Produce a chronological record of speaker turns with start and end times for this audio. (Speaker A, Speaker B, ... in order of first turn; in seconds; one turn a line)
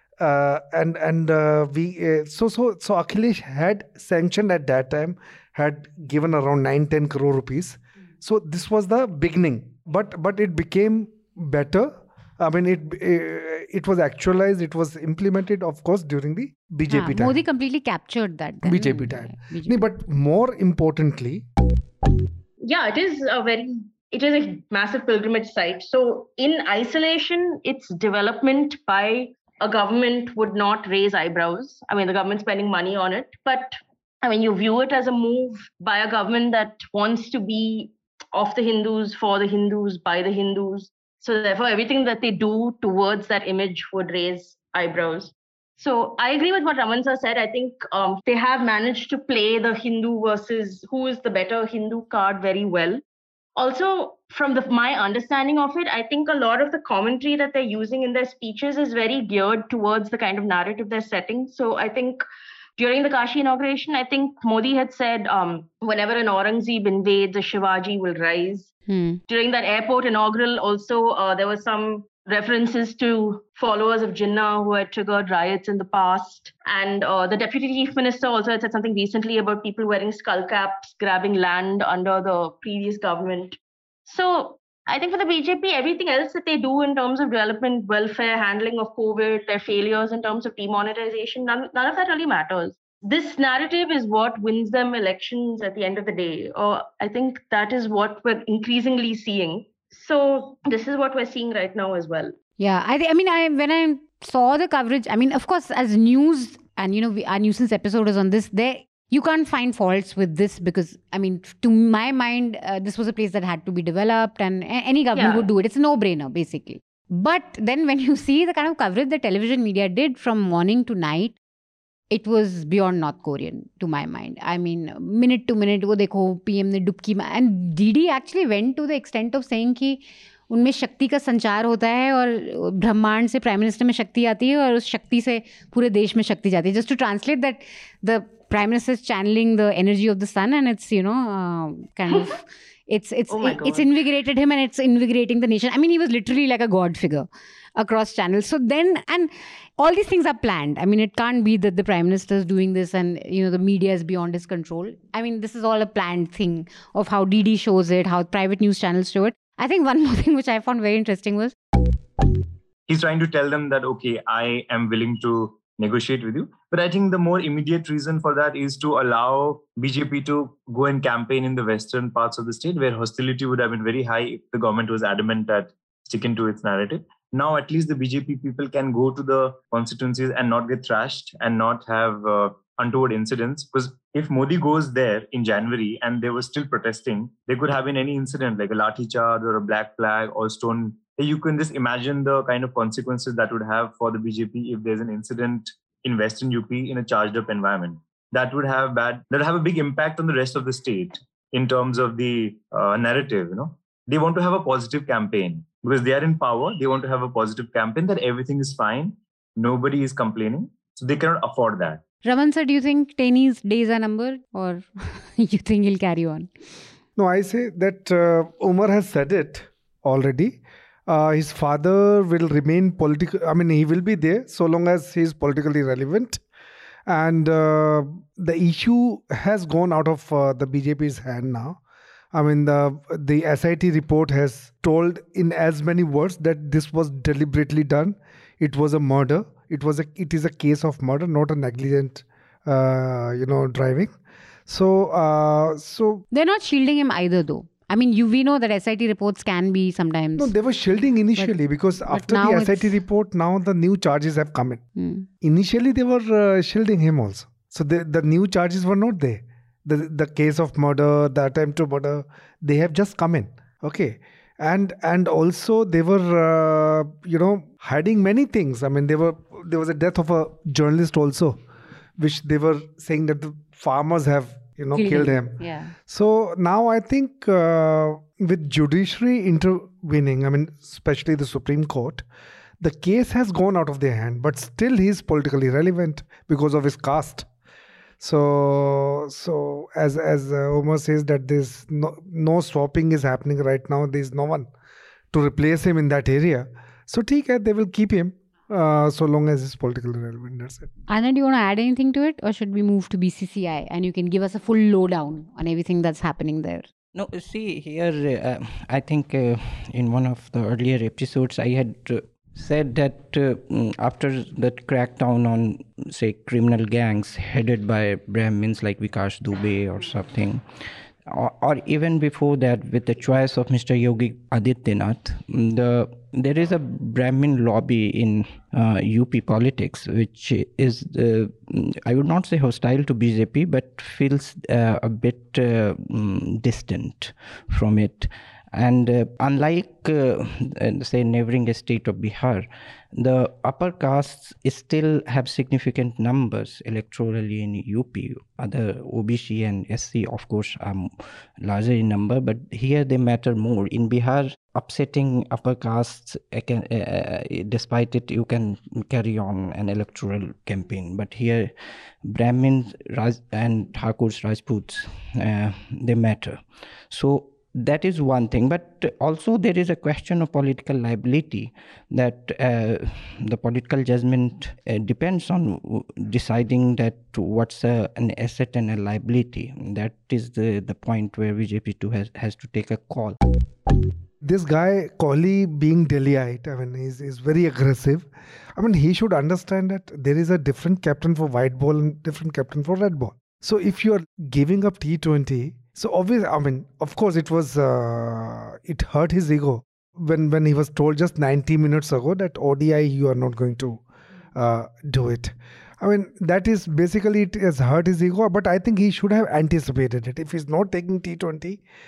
Speaker A: 0.2-17.4
Speaker B: 16.9-19.8
Speaker A: 18.6-21.5
Speaker C: 22.6-53.0
Speaker C: 53.6-62.2
Speaker C: 62.8-68.7
Speaker B: 68.9-69.2
Speaker C: 69.3-102.3
Speaker B: 102.6-121.4
Speaker C: 115.1-115.5
Speaker B: 122.1-161.6
Speaker C: 143.3-143.9
Speaker D: 162.9-212.0
Speaker B: 212.2-216.5
Speaker A: 217.2-226.4
Speaker A: 227.1-231.8
Speaker A: 232.3-244.2
Speaker A: 244.7-246.2
Speaker B: 246.3-250.5
Speaker A: 250.4-254.8
Speaker B: 252.1-252.9
Speaker B: 255.0-255.3
Speaker A: 255.4-271.6
Speaker A: 272.2-282.2
Speaker B: 274.9-275.9
Speaker A: 282.8-287.5
Speaker A: 288.2-294.7
Speaker A: 295.3-300.9
Speaker B: 301.1-306.9
Speaker E: 307.1-320.6
Speaker E: 321.3-361.7
Speaker E: 362.2-383.4
Speaker A: 384.4-404.0
Speaker A: 404.6-411.8